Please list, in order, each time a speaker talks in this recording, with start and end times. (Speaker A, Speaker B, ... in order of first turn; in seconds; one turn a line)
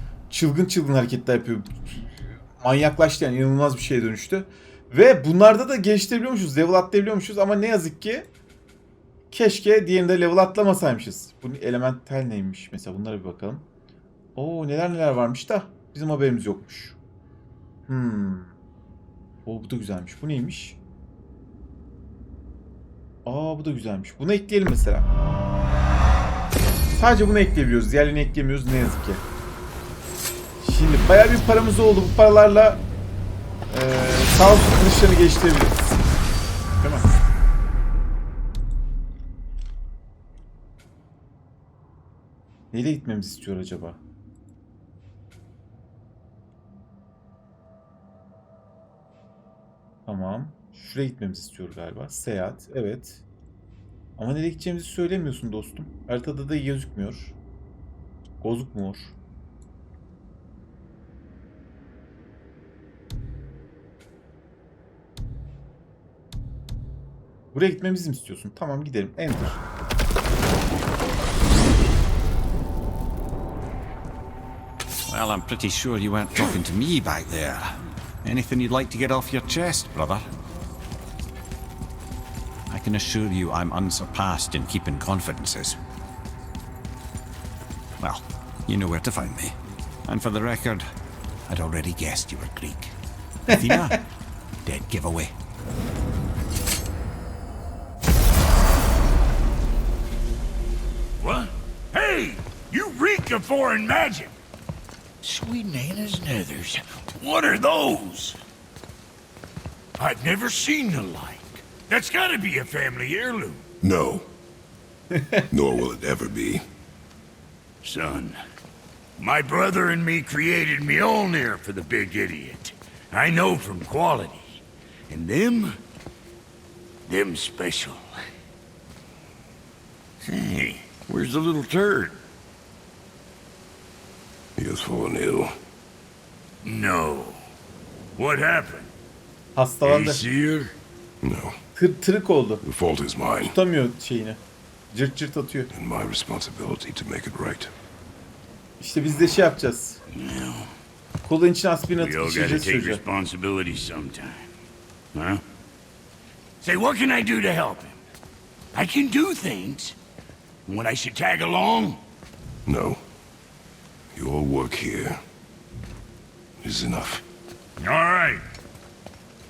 Speaker A: 0.3-2.1
Speaker A: 2.6-8.3
Speaker A: 9.3-13.7
Speaker A: 14.3-17.0
Speaker A: 17.9-18.5
Speaker A: 19.5-20.8
Speaker A: 23.2-25.1
Speaker A: 26.9-29.2
Speaker A: 30.6-32.9
Speaker A: 33.7-35.8
Speaker A: 36.8-37.1
Speaker A: 42.7-44.0
Speaker A: 50.1-53.2
Speaker A: 54.2-57.4
Speaker A: 58.4-59.1
Speaker A: 67.5-69.6
Speaker B: 75.1-80.3
Speaker B: 82.7-85.8
Speaker B: 88.0-89.6
Speaker B: 90.1-90.9
Speaker B: 91.5-93.0
Speaker A: 93.5-94.0
Speaker B: 93.5-94.0
Speaker B: 94.7-95.3
Speaker C: 101.2-104.3
Speaker C: 105.2-108.4
Speaker C: 110.0-113.6
Speaker D: 113.8-114.3
Speaker A: 115.1-115.5
Speaker D: 115.5-116.6
Speaker C: 117.8-118.4
Speaker C: 119.2-125.8
Speaker C: 127.1-128.1
Speaker C: 130.2-132.2
Speaker D: 134.6-135.5
Speaker C: 136.6-137.4
Speaker C: 138.2-138.9
Speaker A: 139.6-140.2
Speaker C: 139.8-140.8
Speaker D: 141.2-141.6
Speaker A: 141.8-142.6
Speaker D: 142.6-143.6
Speaker A: 143.4-144.4
Speaker A: 144.9-145.7
Speaker D: 145.7-147.7
Speaker A: 148.8-150.0
Speaker C: 150.1-150.7
Speaker A: 151.2-153.0
Speaker C: 152.0-154.5
Speaker C: 155.1-155.4
Speaker C: 156.6-158.0
Speaker C: 158.7-159.9
Speaker C: 160.7-162.0
Speaker D: 162.7-163.0
Speaker D: 164.1-165.2
Speaker D: 166.6-167.2
Speaker C: 167.8-168.4